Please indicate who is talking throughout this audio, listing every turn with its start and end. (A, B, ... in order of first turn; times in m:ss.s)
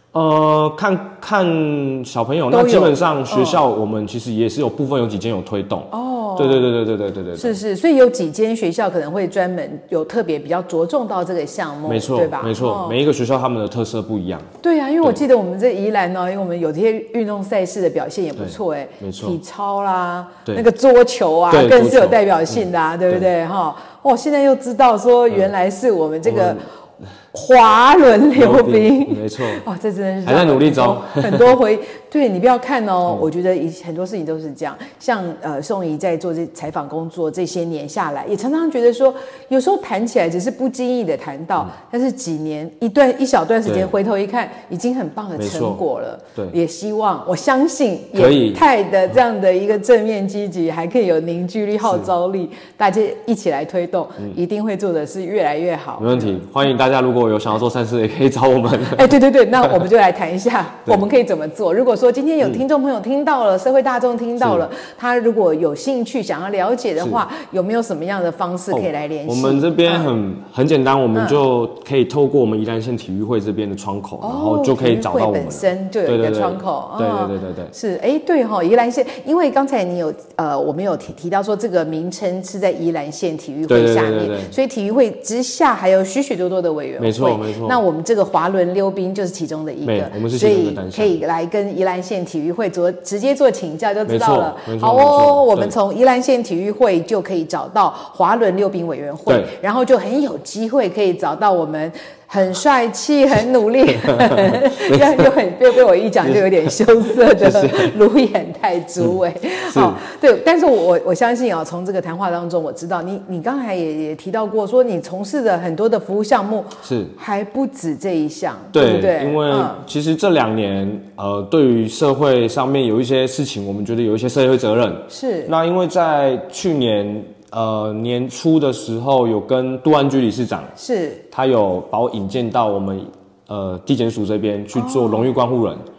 0:00.1-0:07.6 A
0:02.5-0:03.6 B
0:05.9-0:06.7 B
0:07.4-0:13.0 B
0:11.8-0:14.5 A
0:14.6-0:26.6 B
0:18.4-0:19.4 A
0:21.5-0:23.3 A
0:26.2-0:26.6 A
0:27.3-0:56.4 B
0:28.3-0:29.6 A
0:30.2-0:31.6 A
0:43.6-0:43.9 A
0:45.4-0:45.8 A
0:48.1-0:48.6 A
0:51.8-0:52.1 A
0:56.0-0:59.1 A
0:58.8-1:10.1 B
1:04.4-1:04.6 A
1:08.7-1:17.7 A
1:11.1-1:11.4 B
1:14.2-1:59.8 B
1:23.7-1:24.5 A
1:27.0-1:27.8 A
1:29.8-1:31.2 A
1:34.0-1:35.7 A
1:39.3-1:39.5 A
1:44.0-1:45.2 A
1:46.2-1:48.0 A
1:49.7-1:50.0 A
1:56.8-1:57.1 A
1:58.7-2:10.7 A
2:05.1-2:05.5 B
2:10.8-2:11.2 B
2:11.3-2:15.8 A
2:14.7-2:15.3 B